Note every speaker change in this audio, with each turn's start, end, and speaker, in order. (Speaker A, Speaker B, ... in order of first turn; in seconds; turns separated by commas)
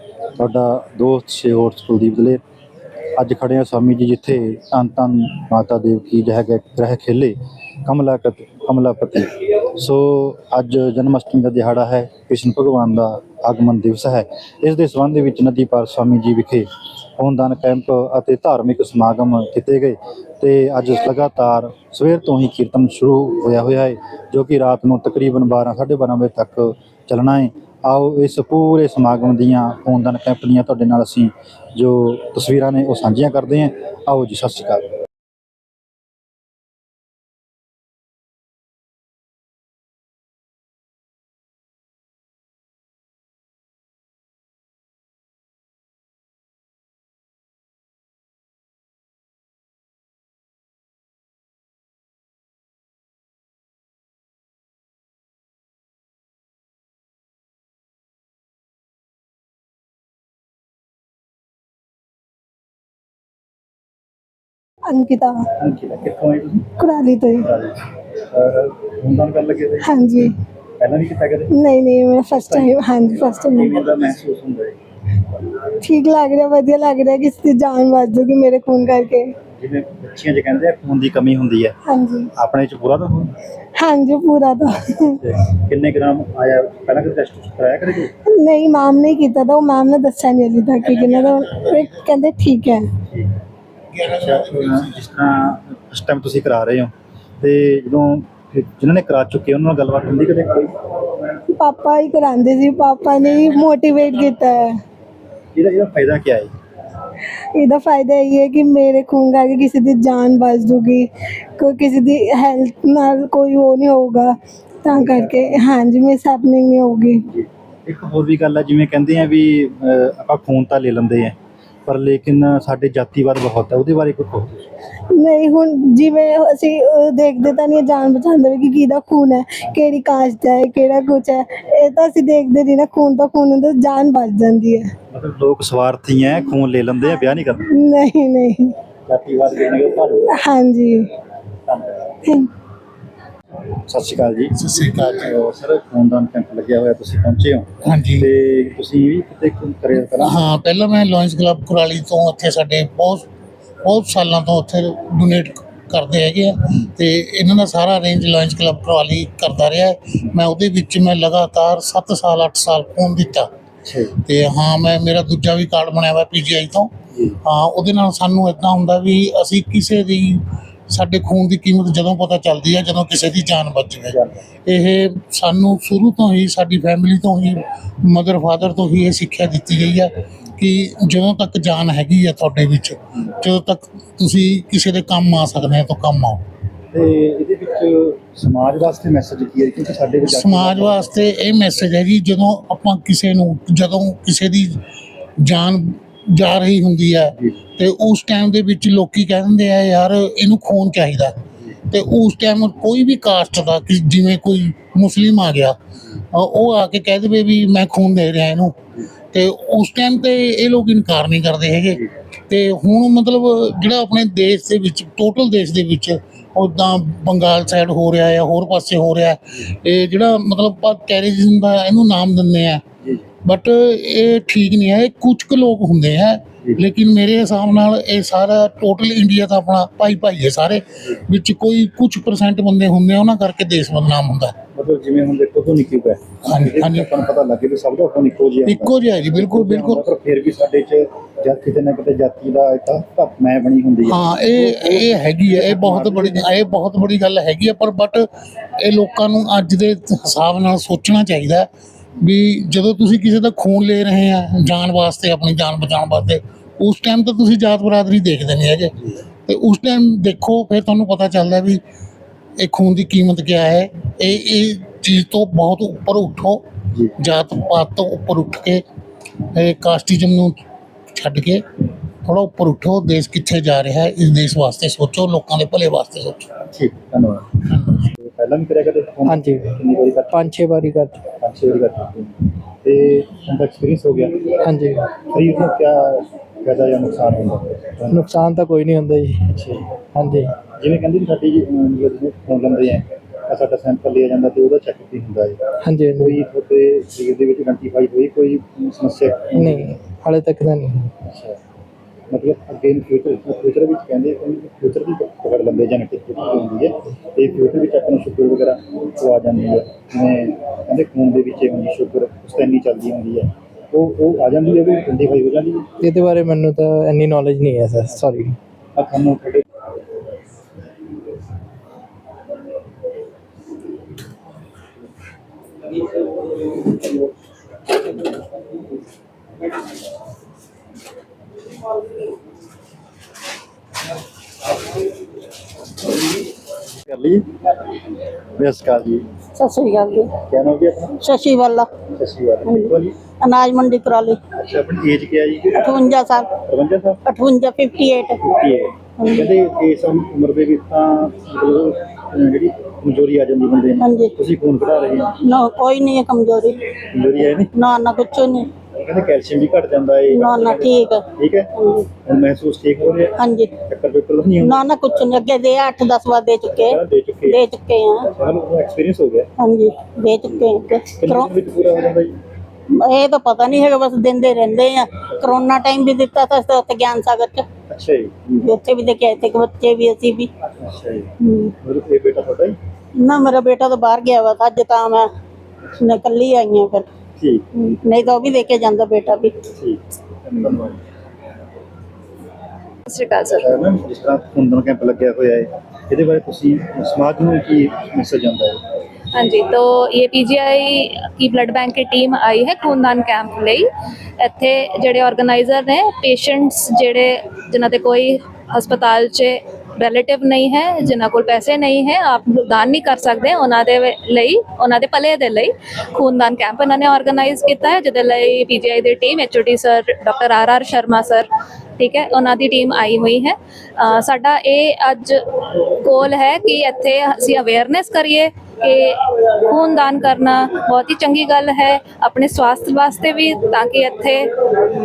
Speaker A: 0.4-2.4, Speaker A: 3.2-34.8, Speaker B: 64.9-65.4, Speaker A: 65.6-66.7, Speaker B: 66.8-67.5, Speaker A: 67.4-67.8, Speaker A: 68.3-70.2, Speaker B: 69.8-70.3, Speaker A: 70.8-71.5, Speaker B: 71.5-73.8, Speaker A: 72.3-74.7, Speaker B: 75.8-79.3, Speaker A: 79.5-81.7, Speaker B: 81.9-82.3, Speaker A: 82.3-83.3, Speaker B: 83.8-85.2, Speaker A: 85.2-88.1, Speaker B: 88.4-92.8, Speaker C: 90.9-91.8, Speaker A: 93.1-93.3, Speaker C: 93.9-94.9, Speaker A: 94.2-100.7, Speaker B: 101.6-104.8, Speaker A: 105.5-106.5, Speaker B: 107.5-117.2, Speaker A: 114.9-115.7, Speaker A: 117.2-124.7, Speaker B: 125.1-134.9, Speaker A: 135.1-137.6, Speaker B: 137.7-138.7, Speaker A: 139.1-140.3, Speaker B: 140.3-141.1, Speaker A: 141.7-142.2, Speaker A: 143.9-144.5, Speaker C: 144.5-145.3, Speaker A: 145.2-150.4, Speaker C: 147.8-148.3, Speaker C: 150.1-153.2, Speaker C: 153.8-163.5, Speaker A: 163.9-164.1, Speaker C: 164.1-186.4, Speaker A: 174.1-174.4, Speaker A: 186.9-191.1, Speaker C: 190.2-194.8, Speaker C: 195.4-201.4, Speaker C: 201.9-205.8, Speaker C: 206.3-208.8, Speaker C: 209.3-222.8, Speaker C: 223.4-234.5, Speaker A: 234.7-246.4, Speaker C: 236.4-237.1, Speaker C: 238.7-240.0, Speaker C: 244.1-248.3, Speaker C: 248.8-251.7, Speaker C: 252.2-258.9, Speaker C: 259.5-261.8, Speaker C: 262.6-266.6, Speaker C: 267.2-268.8, Speaker C: 269.5-270.6, Speaker C: 271.1-271.6, Speaker C: 272.2-276.5, Speaker A: 276.7-277.6, Speaker C: 277.7-278.0, Speaker A: 278.2-280.5, Speaker D: 280.6-280.9, Speaker A: 281.3-284.7, Speaker A: 285.3-288.2, Speaker D: 288.5-289.2, Speaker A: 289.5-300.0, Speaker D: 295.9-296.2, Speaker D: 300.2-301.0, Speaker A: 301.2-301.6, Speaker A: 302.3-315.9, Speaker D: 316.0-318.4, Speaker A: 318.9-319.6, Speaker A: 337.1-337.4, Speaker A: 338.6-339.3, Speaker E: 339.5-340.4, Speaker A: 340.4-341.2, Speaker E: 341.2-342.0, Speaker A: 342.1-343.1, Speaker E: 342.6-344.4, Speaker A: 344.5-347.2, Speaker E: 345.8-346.5, Speaker E: 347.2-348.4, Speaker A: 348.4-355.3, Speaker E: 349.2-349.5, Speaker E: 354.0-354.3, Speaker E: 355.4-356.8, Speaker A: 357.1-357.7, Speaker E: 357.7-358.7, Speaker A: 358.9-364.9, Speaker E: 360.3-362.1, Speaker E: 363.4-363.7, Speaker E: 364.6-368.3, Speaker A: 366.6-367.7, Speaker A: 368.3-369.5, Speaker E: 369.6-371.5, Speaker A: 370.4-372.3, Speaker E: 372.9-377.7, Speaker A: 377.9-378.5, Speaker E: 378.5-380.5, Speaker A: 380.8-381.3, Speaker E: 381.4-381.7, Speaker A: 381.8-382.8, Speaker E: 383.1-385.3, Speaker E: 386.0-387.1, Speaker A: 387.4-387.7, Speaker E: 387.7-389.6, Speaker A: 389.7-391.0, Speaker F: 393.1-393.7, Speaker A: 393.6-398.8, Speaker F: 399.3-403.9, Speaker F: 404.4-425.4, Speaker F: 426.0-434.5